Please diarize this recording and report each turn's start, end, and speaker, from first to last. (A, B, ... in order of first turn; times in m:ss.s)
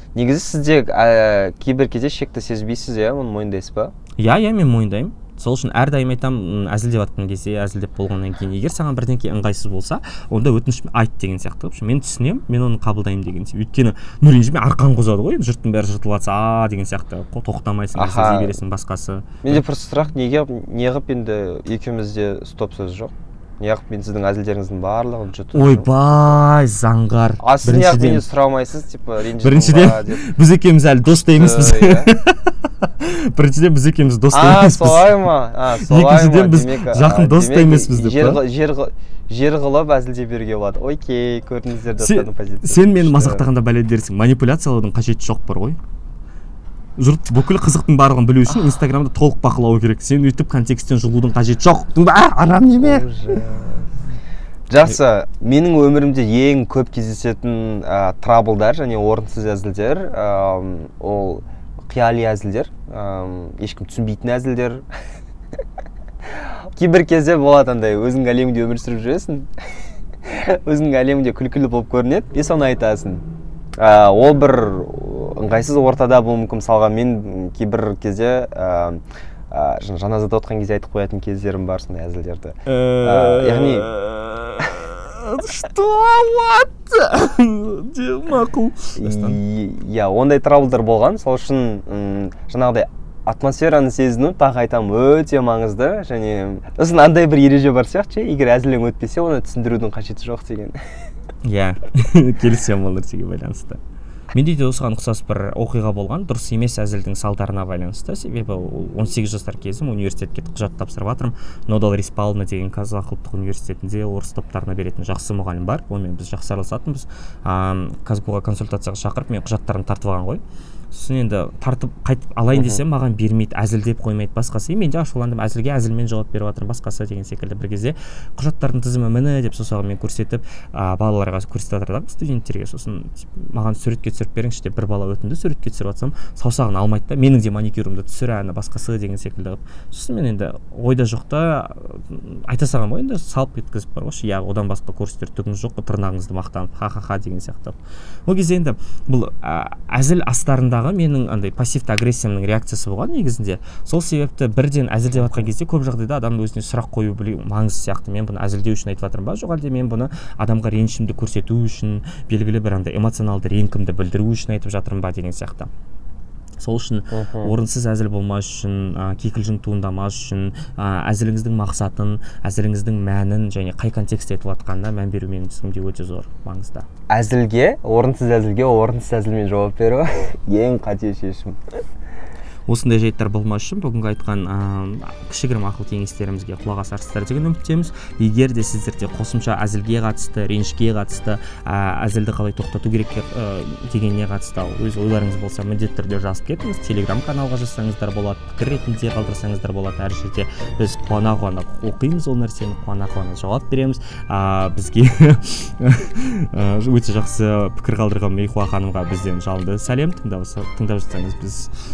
0:00.1-0:03.9 A
0:04.2-0:19.6 B
0:17.9-0:18.5 A
0:19.4-0:25.9 A
0:25.5-0:28.2 B
0:27.4-0:30.2 A
0:29.4-0:35.3 B
0:31.3-0:32.1 A
0:34.3-0:43.5 A
0:35.8-0:38.4 B
0:42.0-0:45.8 B
0:47.0-0:53.1 B
0:52.8-0:53.9 A
0:54.7-1:04.8 A
1:06.7-1:09.5 A
1:10.2-1:13.2 A
1:13.8-1:19.0 A
1:19.5-1:23.9 A
1:22.6-1:29.4 B
1:29.0-1:40.8 A
1:41.4-1:43.8 B
1:44.3-2:45.7 B
2:02.5-2:02.8 A
2:35.1-2:35.5 A
2:46.6-2:56.8 B
2:47.1-2:47.5 A
2:57.1-3:01.6 A
3:02.7-3:31.7 B